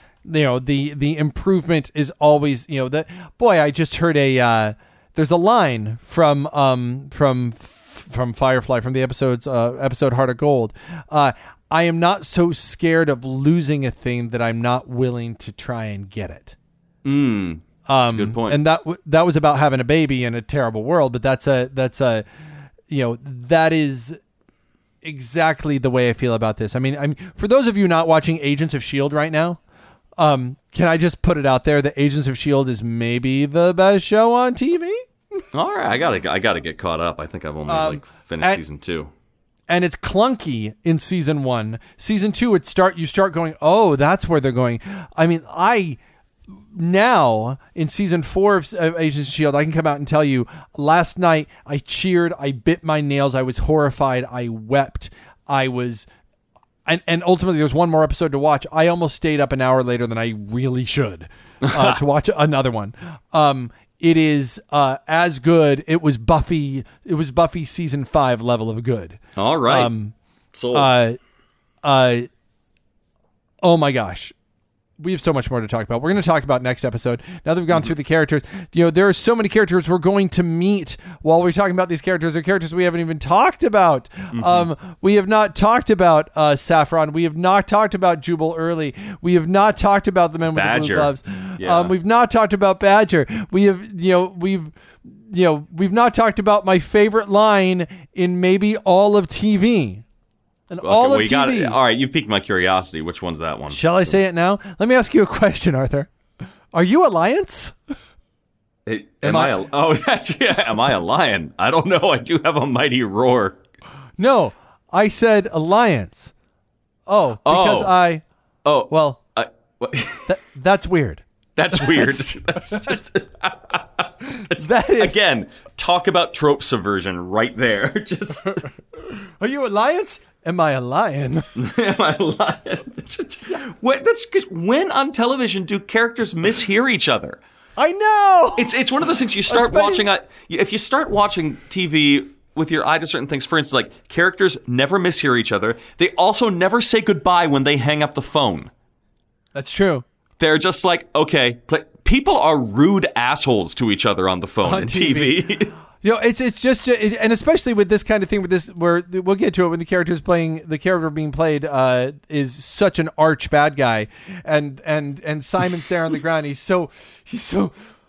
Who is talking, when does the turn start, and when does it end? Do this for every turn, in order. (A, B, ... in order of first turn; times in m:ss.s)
0:00.2-0:16.6 A
0:17.0-0:18.6 B
0:17.9-0:22.3 A
0:22.9-0:24.2 A
0:25.0-0:29.6 A
0:30.2-0:35.1 A
0:35.5-0:39.1 B
0:37.7-0:38.6 A
0:39.7-0:46.0 A
0:46.7-0:56.1 A
0:56.9-1:10.1 A
1:01.6-1:02.0 B
1:09.4-1:09.9 B
1:10.5-1:10.9 B
1:10.7-1:11.2 A
1:11.8-1:12.3 A
1:13.6-1:14.3 A
1:15.0-1:40.0 A
1:24.3-1:24.7 B
1:30.5-1:31.9 B
1:40.7-1:41.8 A
1:40.8-1:44.1 B
1:43.7-1:46.1 A
1:46.7-1:47.8 A
1:48.9-1:53.6 B
1:49.2-1:49.6 A
1:54.2-1:56.3 A
1:57.1-1:58.2 A
1:57.4-1:58.0 B
1:58.6-2:00.3 B
1:58.9-1:59.2 A
2:00.3-2:03.0 A
2:01.6-2:08.7 B
2:04.4-2:05.2 A
2:09.4-2:11.6 A
2:11.6-2:17.4 B
2:17.8-2:18.8 A
2:18.6-2:28.7 B
2:19.5-2:20.1 A
2:29.6-2:30.0 A
2:30.4-2:35.7 B
2:34.6-2:35.5 A
2:36.0-2:47.7 A